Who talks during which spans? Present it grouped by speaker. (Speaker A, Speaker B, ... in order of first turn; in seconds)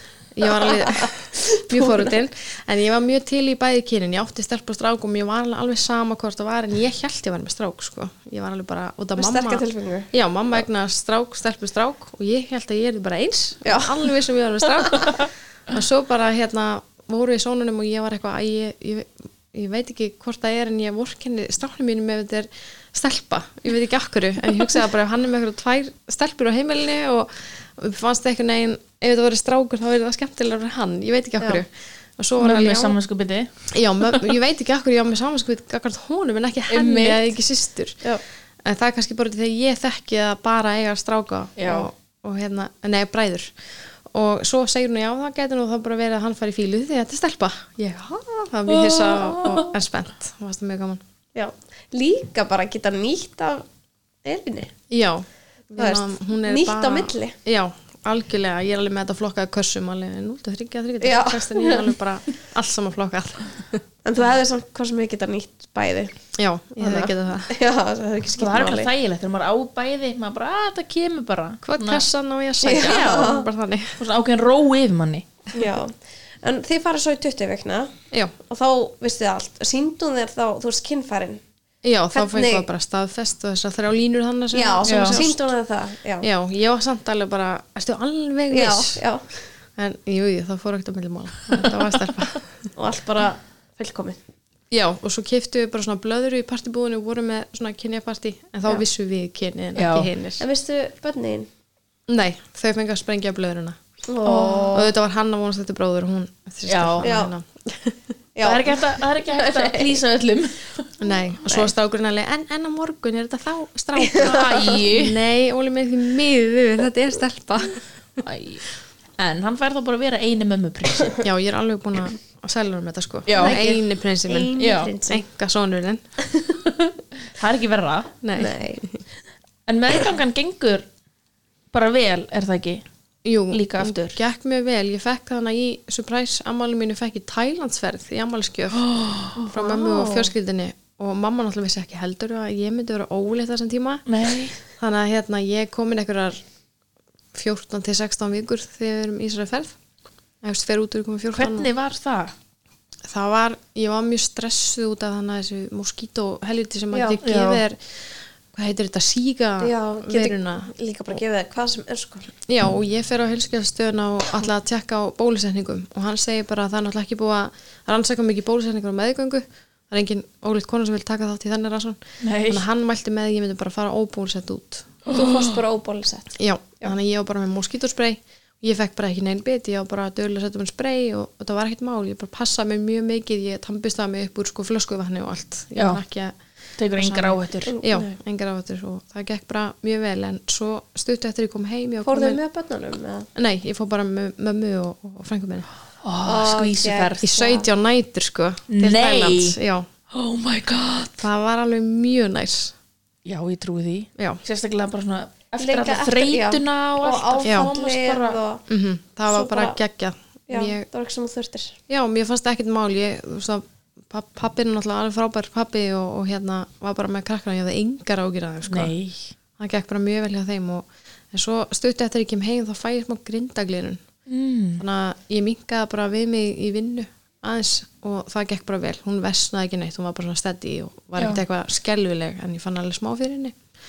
Speaker A: 0.3-33.0, 33.7-38.0, 38.6-43.5, 44.1-51.0, 54.9-63.8, 66.3-67.5, 71.6-74.0, 81.8-85.4, 86.2-89.0, 89.8-92.7, 94.7-100.4, 102.1-103.8, 104.7-108.0, 111.0-118.2, 121.2-126.0, 128.2-128.8, 133.2-138.8, 139.4-144.0, 144.7-146.4, 147.3-149.7, 150.4-151.7, 153.1-160.7, 162.5-175.0, 176.3-186.3, 186.9-192.4, 193.3-195.7, 197.2-199.9, 201.2-202.7, 207.4-207.7, 208.7-210.8, 211.9-218.9, 219.6-224.0, 224.8-233.6
Speaker B: 0.5-1.9, 9.2-10.1, 13.6-14.1, 14.6-15.2, 51.3-53.6, 54.2-54.7, 55.8-57.4, 61.0-61.9, 64.0-66.1, 66.8-68.9, 72.6-73.5, 75.5-81.4, 82.1-82.7, 84.5-86.3, 88.5-89.3, 92.8-94.2, 100.4-101.5, 104.1-104.9, 107.0-107.3, 108.3-110.0, 114.0-114.8, 123.3-125.2, 126.3-126.6, 128.3-128.9, 156.9-157.2, 159.6-162.3, 175.1-176.9, 187.7-188.2, 192.0-193.3, 196.2-197.7, 205.6-208.6, 209.3-209.8, 210.5-211.8
Speaker C: 32.4-33.5, 36.7-37.3, 41.6-41.9, 48.8-49.7, 68.4-72.0, 72.7-73.3, 74.0-75.5, 84.8-85.2, 99.7-100.1, 104.2-104.8, 106.7-107.1, 108.4-110.9, 114.2-115.2, 118.2-118.7, 119.2-121.2, 123.2-123.6, 124.6-124.9, 127.3-128.1, 129.7-130.8, 131.7-132.8, 133.5-134.2, 138.7-140.3, 144.1-144.6, 151.3-152.3, 157.2-157.6, 172.2-172.6, 175.0-175.6, 185.8-186.0, 186.8-187.7, 196.0-197.2, 198.7-199.6, 200.1-201.2, 203.2-208.4, 218.7-219.3, 224.3-224.8